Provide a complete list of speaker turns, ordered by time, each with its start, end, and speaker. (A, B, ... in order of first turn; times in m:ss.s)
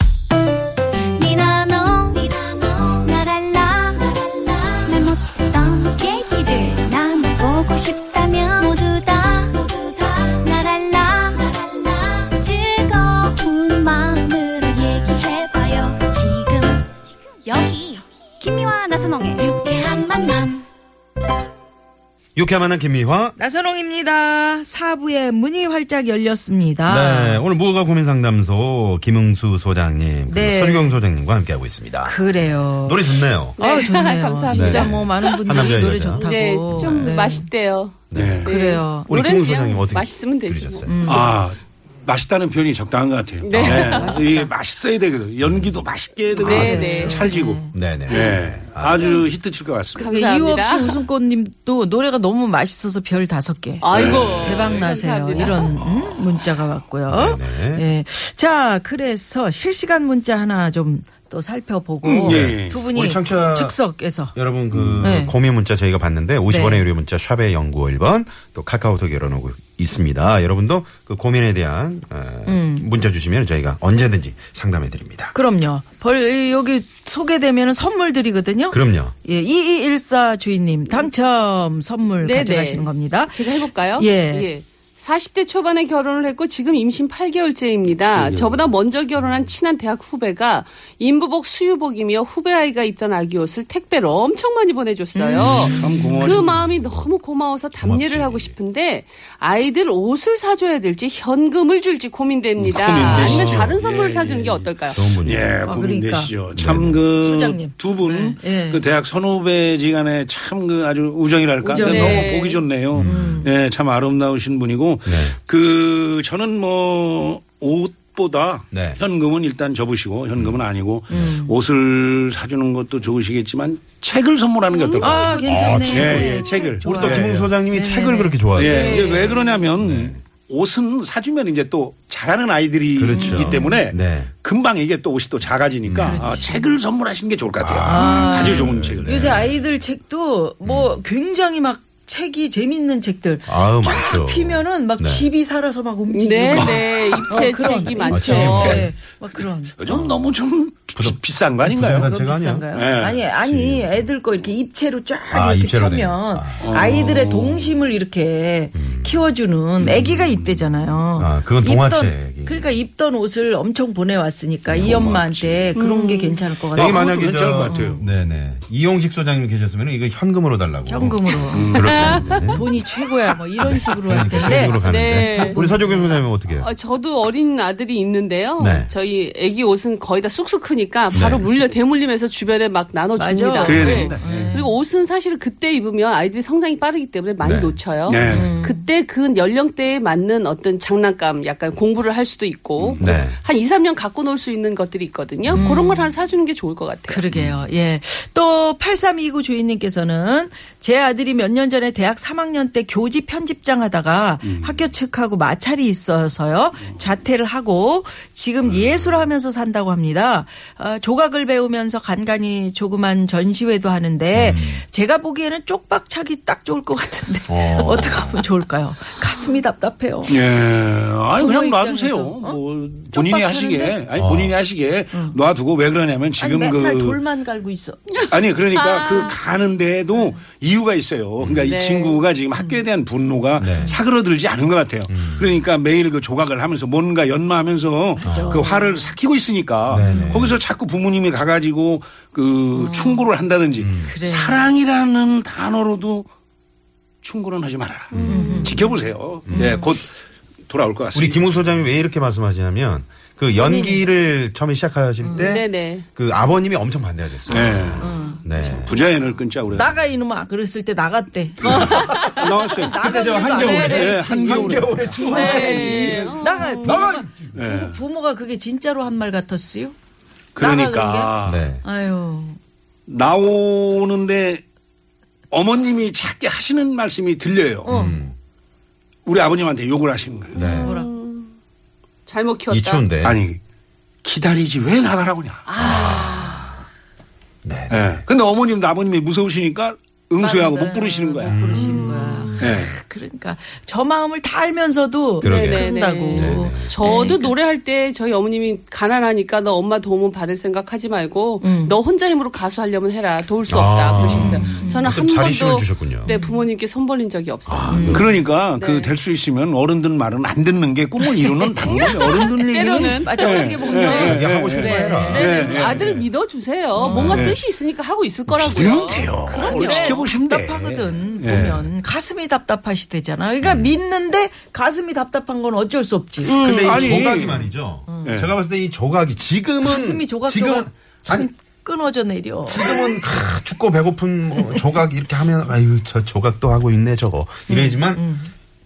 0:01.1-0:20.6 A
0:22.4-0:23.4 B
0:23.4-0:27.4 C
0:26.9-0:33.6 B
0:30.3-0:31.0 C
0:32.0-0:37.5 C
0:33.6-0:40.9 D
0:34.5-0:37.2 B
0:38.1-0:38.5 B
0:38.1-0:38.5 E
0:38.5-0:39.1 C
0:39.0-0:41.3 B
0:40.9-0:41.4 C
0:41.1-0:50.1 E
0:43.4-0:44.2 D
0:43.5-0:44.5 C
0:45.4-0:45.8 B
0:46.4-0:47.3 D
0:46.4-0:47.8 C
0:46.4-0:46.8 B
0:47.7-0:49.2 B
0:48.1-0:48.4 D
0:50.0-0:51.0 D
0:50.0-1:04.4 C
0:53.8-0:55.8 D
0:53.9-0:55.4 E
0:57.1-0:57.8 B
1:02.0-1:02.8 E
1:02.2-1:03.8 B
1:04.3-1:15.4 B
1:04.7-1:05.1 E
1:05.0-1:05.4 C
1:06.5-1:06.9 C
1:12.5-1:12.9 C
1:15.3-1:24.5 C
1:18.7-1:19.1 B
1:22.2-1:45.1 D
1:28.1-1:28.7 E
1:35.2-1:36.2 C
1:35.3-1:35.8 B
1:35.4-1:36.6 E
1:36.4-1:37.1 B
1:37.8-1:38.6 B
1:42.6-2:07.5 E
1:42.9-1:43.8 B
1:44.9-1:45.5 B
1:45.6-1:46.3 C
1:46.6-1:47.1 B
1:47.2-1:48.8 C
1:51.6-1:52.4 C
1:51.8-1:52.6 D
1:52.9-1:53.4 B
1:53.0-1:53.5 C
1:55.0-1:55.4 B
1:58.7-1:59.0 B
2:00.4-2:01.4 B
2:01.1-2:01.5 C
2:04.9-2:08.4 C
2:05.4-2:09.3 B
2:08.6-2:19.4 E
2:08.6-2:09.7 D
2:09.8-2:10.2 B
2:13.0-2:14.3 B
2:13.1-2:13.8 C
2:15.8-2:16.3 B
2:16.0-2:16.8 C
2:17.6-2:19.6 B
2:17.8-2:29.8 C
2:20.6-2:21.0 B
2:23.5-2:25.3 B
2:26.1-2:28.9 D
2:26.5-2:27.3 E
2:28.1-2:28.9 B
2:28.5-2:28.9 E
2:29.7-2:32.1 E
2:29.9-2:30.2 B
2:31.0-2:34.1 B
2:31.9-2:47.1 C
2:32.7-2:33.2 E
2:35.3-2:36.7 B
2:36.6-2:37.8 E
2:38.7-2:39.3 B
2:39.8-2:40.8 E
2:41.2-2:42.8 B
2:44.7-2:45.5 B
2:44.7-2:45.7 E
2:45.8-2:46.4 D
2:46.7-2:52.8 B
2:46.8-2:48.1 E
2:47.6-2:48.0 C
2:50.9-2:56.3 C
2:51.5-2:52.6 E
2:51.8-2:52.3 D
2:53.6-2:56.7 B
2:54.6-2:55.6 D
2:56.6-3:17.2 D
2:58.6-2:58.9 B
3:01.1-3:01.5 B
3:03.2-3:04.8 C
3:03.6-3:04.6 E
3:07.4-3:08.5 B
3:08.1-3:08.5 E
3:08.2-3:08.8 C
3:13.0-3:13.4 B
3:15.5-3:16.1 C
3:17.1-3:40.4 C
3:17.3-3:17.6 B
3:24.4-3:24.9 E
3:28.6-3:29.2 B
3:34.3-3:34.8 B
3:37.5-3:38.5 B
3:40.3-3:47.2 E
3:41.3-3:42.6 C
3:43.1-3:44.0 C
3:44.2-3:44.6 B
3:46.4-3:48.0 C
3:48.2-4:06.3 E
3:48.7-3:49.4 D
3:50.1-3:50.4 C
3:51.4-3:51.7 B
3:51.6-3:52.2 D
3:53.6-3:54.0 B
3:53.7-3:54.0 C
3:55.1-3:55.6 B
3:58.2-3:59.2 C
3:58.2-3:58.6 B
3:59.9-4:00.6 B
4:00.0-4:00.5 C
4:02.8-4:03.3 C
4:03.8-4:04.2 B
4:04.0-4:04.6 C
4:07.2-4:10.1 E
4:08.1-4:08.8 B
4:08.2-4:08.8 D
4:08.2-4:09.0 C
4:09.5-4:09.8 B
4:09.5-4:09.9 C
4:10.7-4:11.6 E
4:11.1-4:19.0 B
4:13.5-4:14.0 C
4:15.2-4:15.6 C
4:15.4-4:16.1 D
4:17.5-4:19.9 E
4:18.0-4:18.4 C
4:19.7-4:30.0 C
4:21.6-4:27.5 B
4:21.8-4:22.5 D
4:21.8-4:23.0 E
4:23.5-4:24.1 D
4:23.7-4:25.3 E
4:25.2-4:27.1 D
4:27.5-4:28.0 E
4:30.6-4:31.7 E
4:30.6-4:32.6 C
4:31.4-4:31.8 B
4:33.1-4:34.6 E
4:35.5-4:38.0 E
4:37.8-4:38.2 C
4:37.9-4:38.4 B
4:39.3-4:40.6 E
4:40.5-4:40.9 B
4:40.6-4:41.1 C
4:40.6-4:41.5 D
4:42.3-4:43.0 D
4:42.7-4:43.4 B
4:43.2-4:43.6 E
4:44.2-4:45.7 E
4:45.7-4:46.7 D
4:45.8-4:46.8 B
4:47.6-4:48.2 B
4:47.9-4:51.6 E
4:50.4-4:57.5 C
4:51.4-4:52.1 B
4:51.8-4:52.5 D
4:52.6-4:52.9 E
4:55.4-4:57.3 B
4:55.4-5:09.1 D
5:01.6-5:02.0 C
5:03.7-5:06.3 B
5:04.2-5:05.1 C
5:04.3-5:04.7 E
5:06.2-5:06.7 C
5:07.7-5:08.3 B
5:07.9-5:08.2 C
5:08.1-5:16.3 E
5:11.4-5:12.1 C
5:11.8-5:14.4 D
5:13.0-5:15.9 C
5:14.2-5:15.6 B
5:15.3-5:20.2 D
5:17.0-5:17.5 C
5:17.0-5:17.6 B
5:17.2-5:17.6 E
5:18.6-5:19.5 B
5:18.6-5:21.8 E
5:19.5-5:28.4 C
5:23.6-5:24.0 B
5:26.4-5:27.0 D
5:26.5-5:31.5 B
5:26.8-5:27.6 E
5:28.2-5:28.5 E
5:29.8-5:33.0 C
5:32.7-5:38.2 B
5:37.7-5:38.5 C